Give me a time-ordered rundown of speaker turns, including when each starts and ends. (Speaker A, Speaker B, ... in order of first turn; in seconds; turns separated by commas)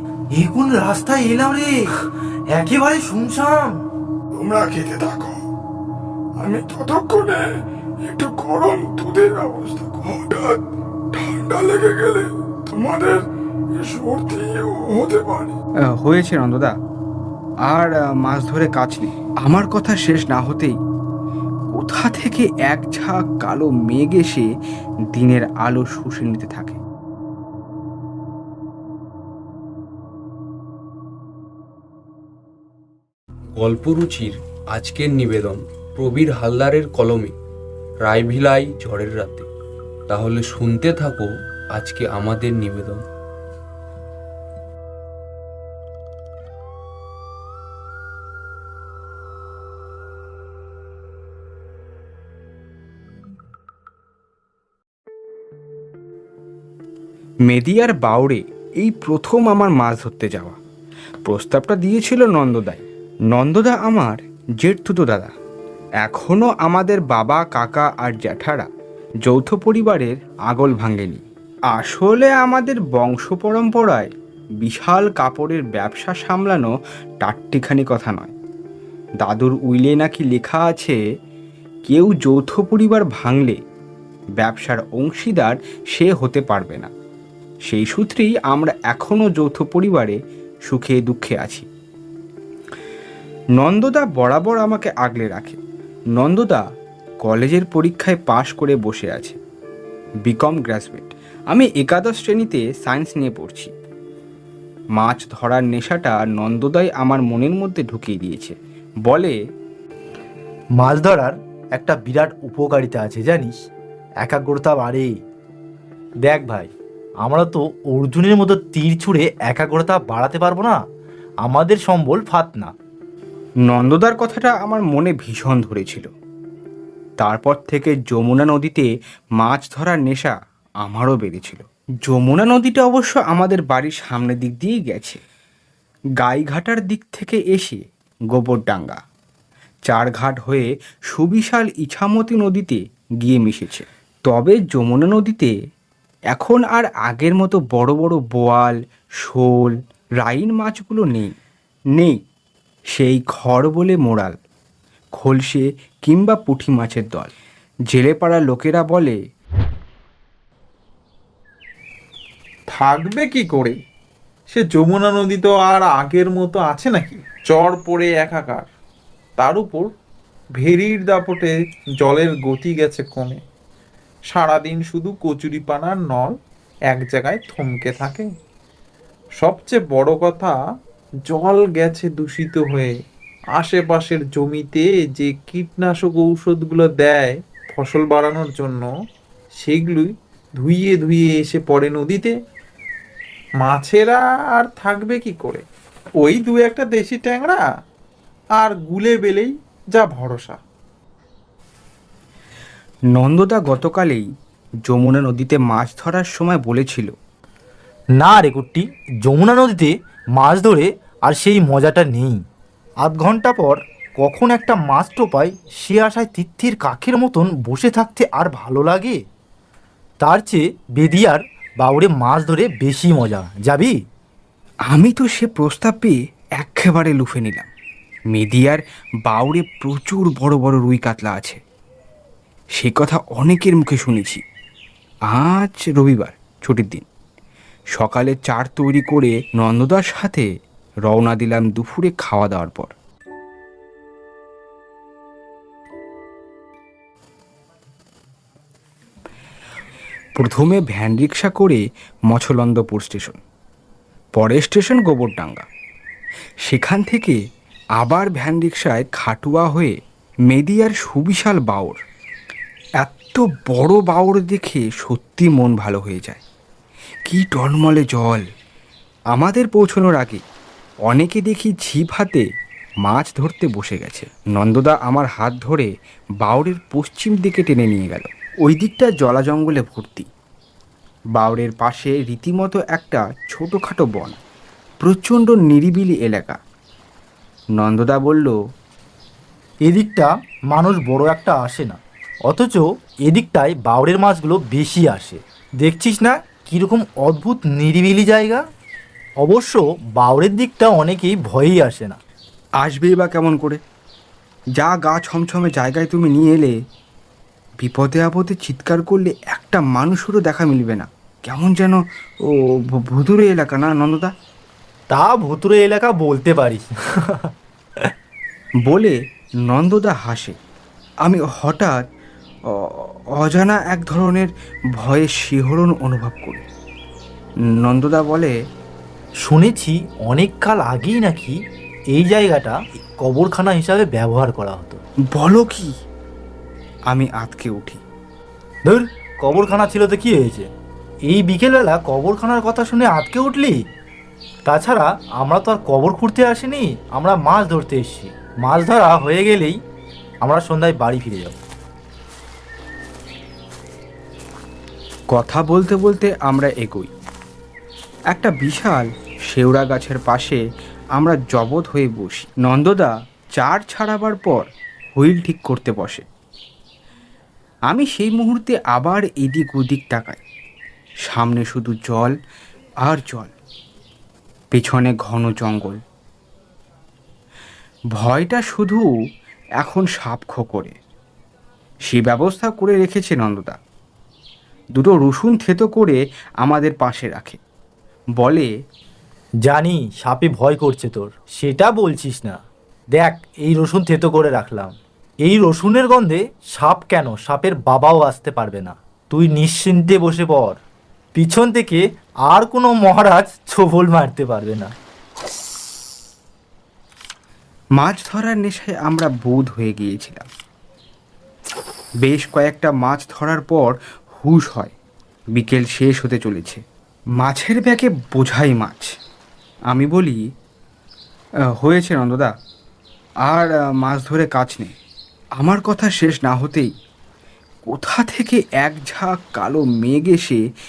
Speaker A: 0.3-1.9, Speaker A: 2.5-3.8, Speaker B: 4.3-5.4, Speaker B: 6.4-7.5, Speaker B: 8.0-10.6, Speaker B: 11.1-13.2, Speaker B: 13.8-15.5, Speaker C: 16.0-16.8, Speaker C: 17.7-20.8, Speaker C: 21.7-24.5, Speaker C: 25.1-26.8, Speaker D: 33.6-37.3, Speaker D: 38.0-39.5, Speaker D: 40.1-43.0, Speaker C: 57.5-60.6, Speaker C: 61.2-65.3, Speaker C: 66.0-68.7, Speaker C: 69.2-74.1, Speaker C: 74.6-78.3, Speaker C: 79.2-81.0, Speaker C: 81.8-83.6, Speaker C: 84.4-86.9, Speaker C: 87.7-91.7, Speaker C: 93.6-95.6, Speaker C: 96.2-96.6, Speaker C: 97.2-99.4, Speaker C: 100.2-103.7, Speaker C: 105.0-109.3, Speaker A: 110.8-113.5, Speaker A: 114.2-115.1, Speaker A: 116.3-116.7, Speaker A: 117.2-120.8, Speaker A: 121.4-122.7, Speaker C: 123.7-126.1, Speaker C: 127.2-135.2, Speaker C: 136.2-139.0, Speaker C: 139.9-145.5, Speaker C: 146.3-151.3, Speaker C: 152.9-154.3, Speaker C: 155.2-157.3, Speaker C: 157.9-159.2, Speaker E: 162.7-163.8, Speaker E: 164.5-168.7, Speaker E: 169.4-169.9, Speaker E: 170.6-173.4, Speaker E: 174.3-176.3, Speaker E: 176.9-178.3, Speaker E: 179.4-180.6, Speaker E: 181.2-183.0, Speaker E: 183.6-188.9, Speaker E: 189.6-192.4, Speaker E: 193.6-195.7, Speaker E: 196.2-197.6, Speaker E: 198.6-200.6, Speaker C: 203.1-204.3, Speaker C: 204.8-207.1, Speaker A: 208.2-212.4, Speaker A: 213.0-219.2, Speaker A: 220.2-224.0, Speaker C: 224.9-227.7, Speaker C: 228.3-231.6, Speaker C: 232.8-234.4, Speaker C: 235.3-237.1, Speaker C: 237.9-240.5, Speaker C: 241.1-242.9, Speaker C: 250.4-253.4, Speaker C: 254.3-255.7, Speaker C: 256.7-257.4, Speaker C: 258.0-259.9, Speaker C: 260.5-262.0, Speaker C: 263.0-266.4, Speaker C: 267.3-268.4, Speaker C: 269.3-270.4, Speaker C: 271.1-272.4, Speaker C: 273.0-275.9, Speaker C: 276.4-280.3, Speaker C: 281.4-284.4, Speaker C: 285.0-286.6, Speaker C: 287.8-288.5, Speaker A: 289.9-298.6, Speaker A: 299.4-302.2, Speaker C: 302.8-303.8, Speaker C: 304.8-306.7, Speaker C: 307.8-314.3, Speaker A: 315.1-317.4, Speaker C: 318.9-319.1, Speaker C: 319.6-320.6, Speaker C: 321.2-322.0, Speaker C: 322.7-326.6, Speaker C: 327.8-328.5, Speaker A: 329.4-331.6, Speaker A: 332.1-335.0, Speaker C: 335.3-335.9, Speaker C: 337.1-338.0, Speaker A: 338.9-340.7, Speaker A: 341.3-343.8, Speaker A: 344.6-349.8, Speaker A: 350.4-351.6, Speaker C: 355.3-357.1, Speaker C: 358.3-360.6, Speaker C: 361.2-366.2, Speaker C: 367.9-370.4, Speaker C: 371.2-372.3, Speaker C: 373.0-373.5, Speaker C: 374.7-376.0, Speaker C: 378.1-379.1, Speaker C: 379.8-380.9, Speaker C: 382.1-383.8, Speaker C: 384.9-387.6, Speaker C: 388.4-388.7, Speaker A: 389.6-392.6, Speaker A: 393.2-394.9, Speaker A: 395.4-400.8, Speaker A: 401.3-404.9, Speaker C: 408.0-410.4, Speaker C: 412.2-414.9, Speaker C: 415.5-416.8, Speaker C: 417.4-419.1, Speaker C: 419.9-420.4, Speaker C: 421.8-422.5, Speaker C: 423.5-424.9, Speaker C: 425.6-426.9, Speaker C: 427.9-430.6